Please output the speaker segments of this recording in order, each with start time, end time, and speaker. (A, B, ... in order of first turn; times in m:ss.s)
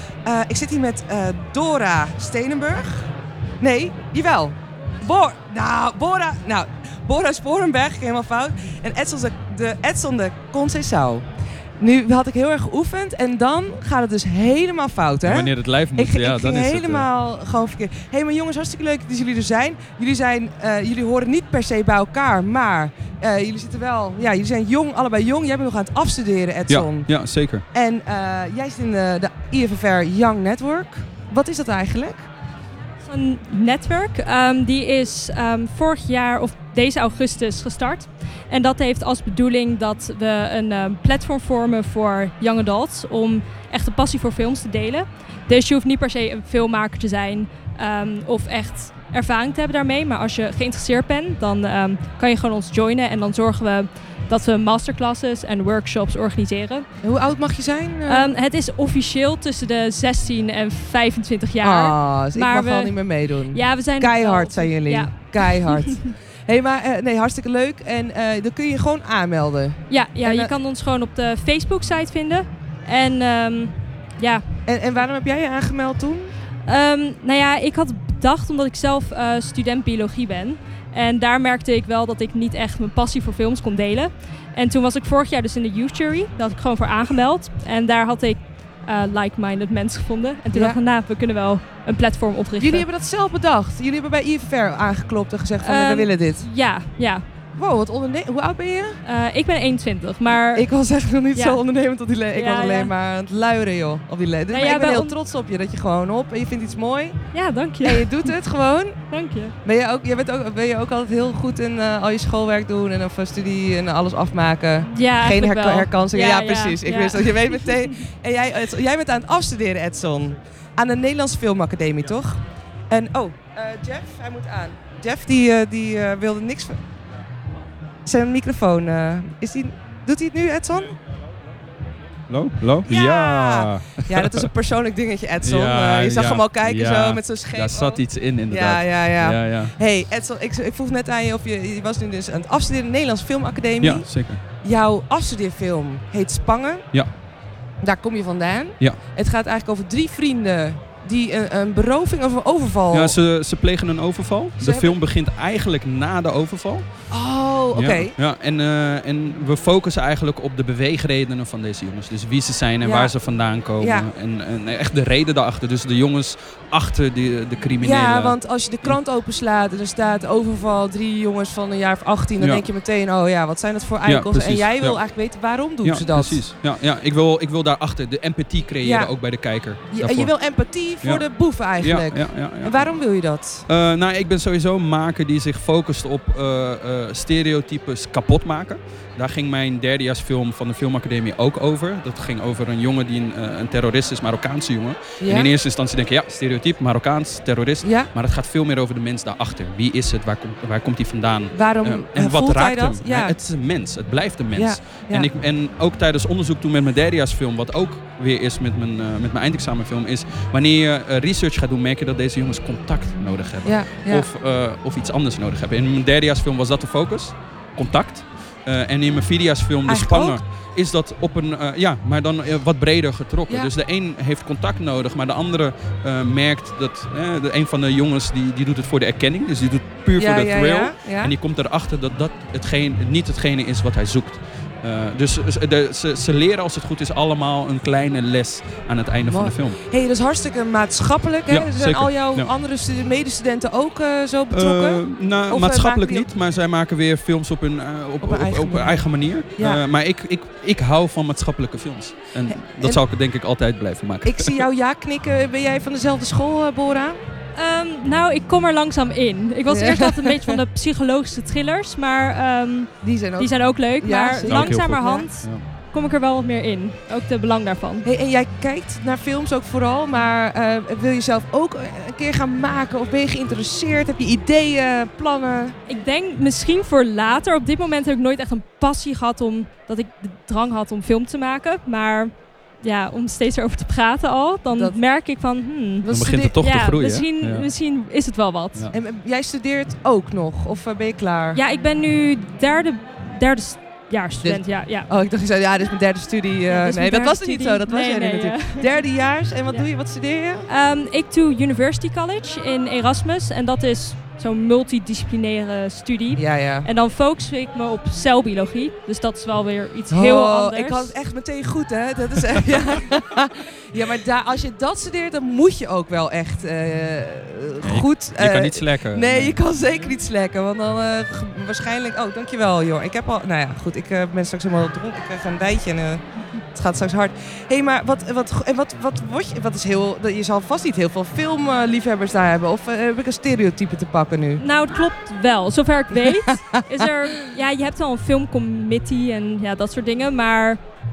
0:00.2-0:03.1 A
0:03.6-0:11.3 A
0:11.8-0:27.1 A
0:15.2-0:17.1 B
0:26.7-0:27.6 B
0:27.7-0:32.3 A
0:33.0-0:56.9 C
0:57.0-0:58.3 A
0:58.1-1:06.0 C
1:01.6-1:10.5 A
1:09.9-1:14.4 C
1:14.7-1:16.3 A
1:16.7-1:32.9 C
1:30.5-1:30.8 A
1:32.6-1:36.5 A
1:35.6-1:37.2 C
1:37.6-1:39.0 A
1:39.0-1:40.7 C
1:40.5-1:47.2 A
1:41.3-1:41.6 C
1:42.3-1:42.9 C
1:44.5-1:45.1 C
1:47.3-1:48.3 C
1:47.8-1:49.0 A
1:49.1-1:49.6 C
1:49.6-2:06.8 A
1:54.8-1:57.9 C
2:08.0-2:10.9 A
2:12.3-2:14.5 B
2:12.9-2:24.1 A
2:15.4-2:19.8 B
2:23.8-2:24.4 B
2:24.6-2:26.9 A
2:27.8-2:33.2 A
2:32.9-2:36.9 B
2:34.6-2:35.0 A
2:37.1-2:38.2 A
2:37.7-2:49.0 B
2:42.8-2:43.2 A
2:43.8-2:44.1 A
2:47.8-2:56.4 A
2:52.4-2:52.7 B
2:54.0-2:55.0 B
2:55.8-3:00.4 B
2:58.8-2:59.1 A
2:59.9-3:03.7 A
3:01.0-3:02.9 B
3:03.7-3:59.8 B
3:15.2-3:15.5 A
3:17.8-3:18.1 A
3:21.5-3:23.4 A
3:24.5-3:25.3 A
3:33.6-3:34.3 A
3:39.8-3:40.4 A
3:50.2-3:51.3 A
3:59.3-4:06.3 A
4:01.5-4:02.5 B
4:04.5-4:14.6 B
4:08.2-4:09.8 A
4:12.4-4:13.0 A
4:14.2-4:17.2 A
4:17.6-4:28.1 C
4:19.7-4:20.6 A
4:23.0-4:25.3 A
4:24.4-4:25.6 B
4:28.0-4:35.8 A
4:35.9-4:48.9 C
4:44.7-4:45.0 A
4:46.0-4:46.7 A
4:46.0-4:47.7 B
4:48.9-4:51.6 A
4:51.6-4:55.1 C
4:54.4-5:00.7 A
4:56.7-4:58.9 C
5:00.7-5:11.2 C
5:06.4-5:06.9 A
5:10.1-5:34.6 A
5:17.8-5:19.6 B
5:34.6-5:40.8 C
5:36.1-5:36.8 A